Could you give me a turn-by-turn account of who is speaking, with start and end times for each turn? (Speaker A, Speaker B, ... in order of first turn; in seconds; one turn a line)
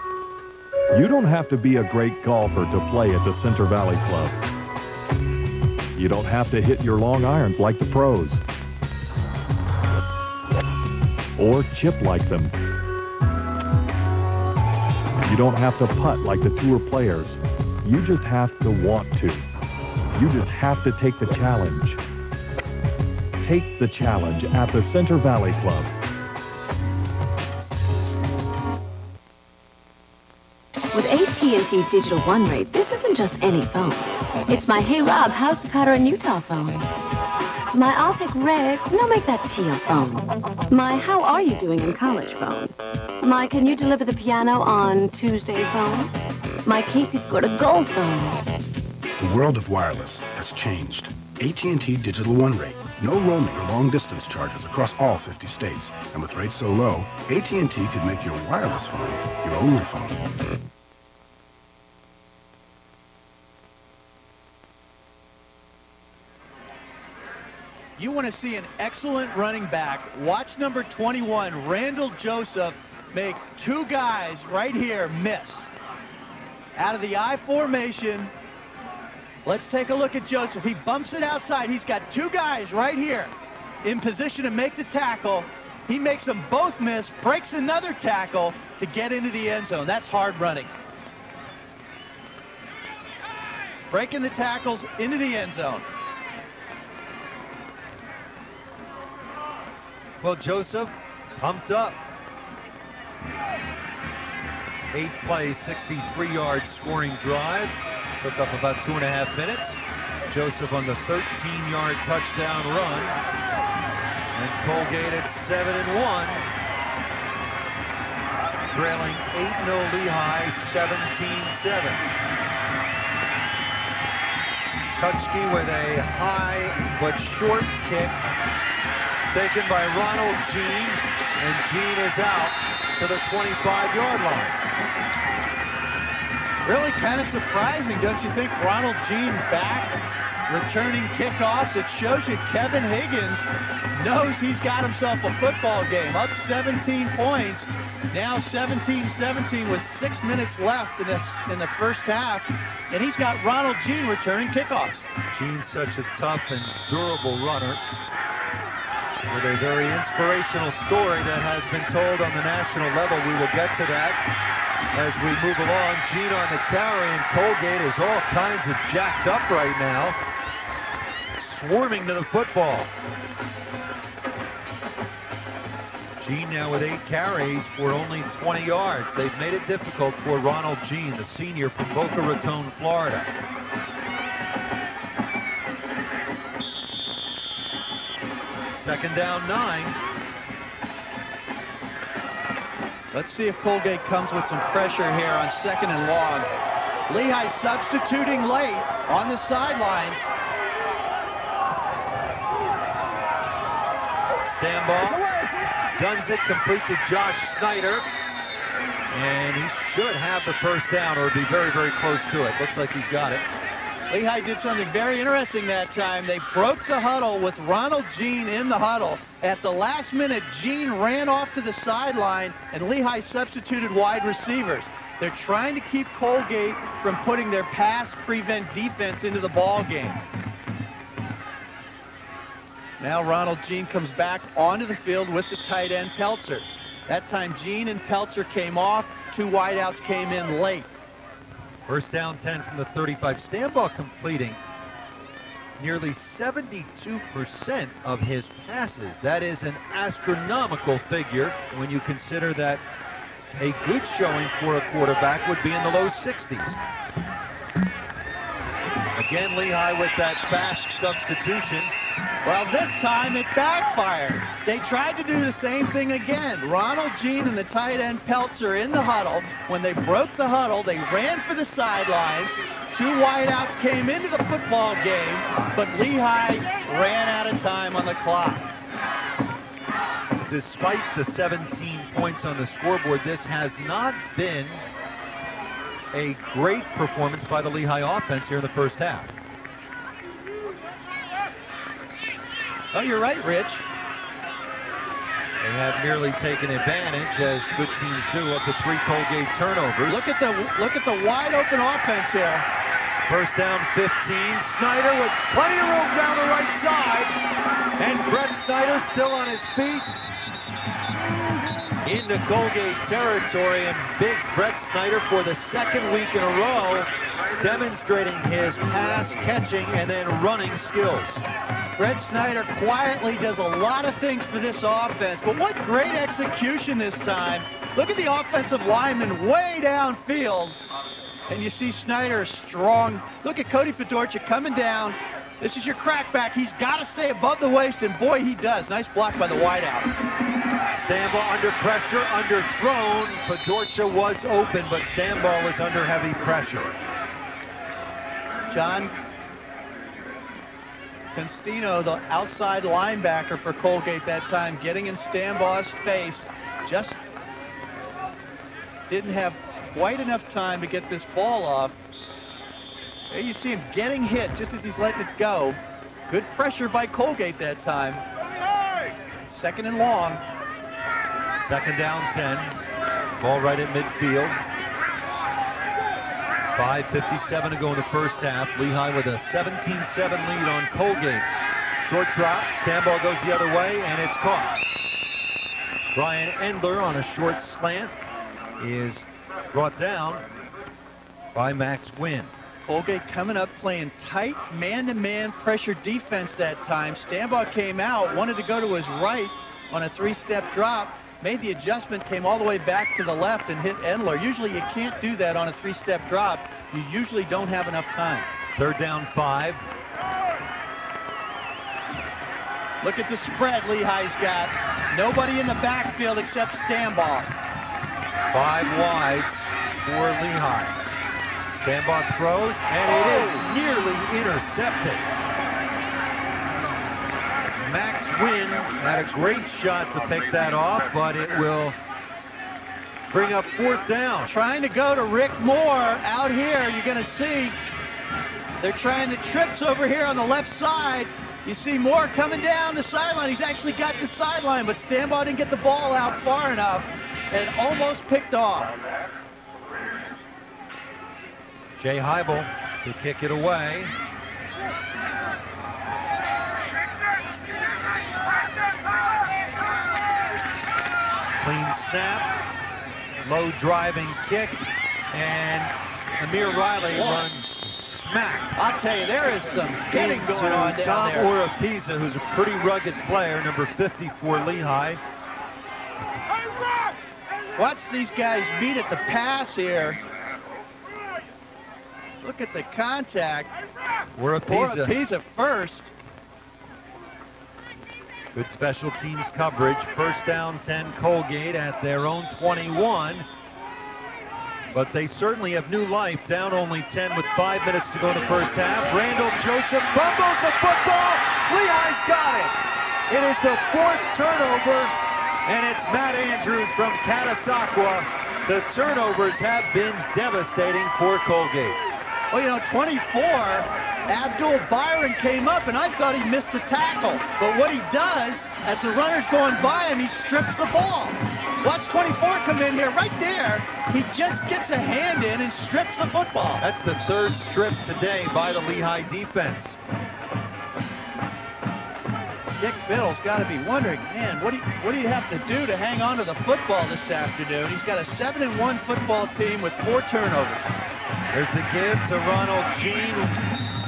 Speaker A: 0.9-4.4
Speaker A: 6.0-8.4
Speaker A: 11.4-12.5
Speaker A: 15.2-19.5
Speaker A: 20.1-22.0
Speaker A: 23.4-25.9
Speaker B: 30.9-36.9
Speaker B: 37.7-42.7
Speaker B: 43.2-46.1
Speaker B: 46.7-48.5
Speaker C: 49.2-60.3
Speaker D: 68.0-75.7
Speaker D: 76.8-78.3
Speaker D: 79.5-83.3
Speaker D: 83.8-90.7
Speaker D: 93.9-95.9
Speaker E: 100.2-102.0
Speaker E: 104.9-113.2
Speaker E: 114.3-116.5
Speaker E: 118.7-122.0
Speaker E: 125.0-128.2
Speaker E: 129.3-134.6
Speaker D: 136.7-155.1
Speaker E: 155.3-157.8
Speaker E: 159.3-164.2
Speaker E: 164.9-170.2
Speaker E: 171.4-172.9
Speaker E: 176.2-183.3
Speaker E: 188.8-190.0
Speaker D: 193.1-196.5
Speaker D: 197.1-200.3
Speaker E: 204.4-205.2
Speaker E: 205.9-208.1
Speaker E: 209.1-213.4
Speaker D: 214.1-230.2
Speaker D: 233.0-240.9
Speaker E: 241.9-244.6
Speaker E: 245.8-252.8
Speaker E: 253.6-256.8
Speaker E: 259.1-261.9
Speaker D: 262.4-278.8
Speaker E: 280.4-284.8
Speaker E: 286.1-289.3
Speaker D: 292.9-293.8
Speaker E: 295.6-300.2
Speaker D: 300.1-302.7
Speaker E: 303.3-307.4
Speaker E: 308.0-310.1
Speaker E: 312.0-321.4
Speaker D: 322.0-330.8
Speaker D: 331.5-340.1
Speaker E: 340.9-346.9
Speaker D: 348.7-349.1
Speaker D: 351.4-357.2
Speaker D: 359.1-361.9
Speaker D: 363.3-368.2
Speaker D: 369.5-370.4
Speaker E: 371.6-372.8
Speaker E: 373.4-374.6
Speaker E: 376.8-381.5
Speaker E: 382.0-384.8
Speaker E: 386.1-388.1
Speaker E: 388.8-390.4
Speaker E: 391.5-392.5
Speaker D: 392.9-408.5
Speaker E: 408.8-409.8
Speaker D: 413.0-417.5
Speaker E: 418.5-421.0
Speaker E: 421.8-425.2
Speaker E: 427.8-432.0
Speaker E: 433.3-434.5
Speaker D: 434.5-437.8
Speaker D: 438.8-448.9
Speaker E: 452.0-454.1
Speaker E: 461.6-462.5
Speaker E: 463.4-468.7
Speaker D: 467.2-467.4
Speaker D: 468.8-471.5
Speaker E: 470.1-475.2
Speaker D: 477.8-480.2
Speaker D: 482.4-483.7
Speaker E: 484.4-485.1
Speaker D: 484.7-486.1
Speaker E: 488.5-493.5
Speaker E: 494.9-502.8
Speaker E: 503.3-505.1
Speaker E: 505.6-512.0
Speaker D: 512.5-526.8
Speaker E: 526.8-530.0
Speaker D: 532.8-540.9
Speaker E: 541.5-543.6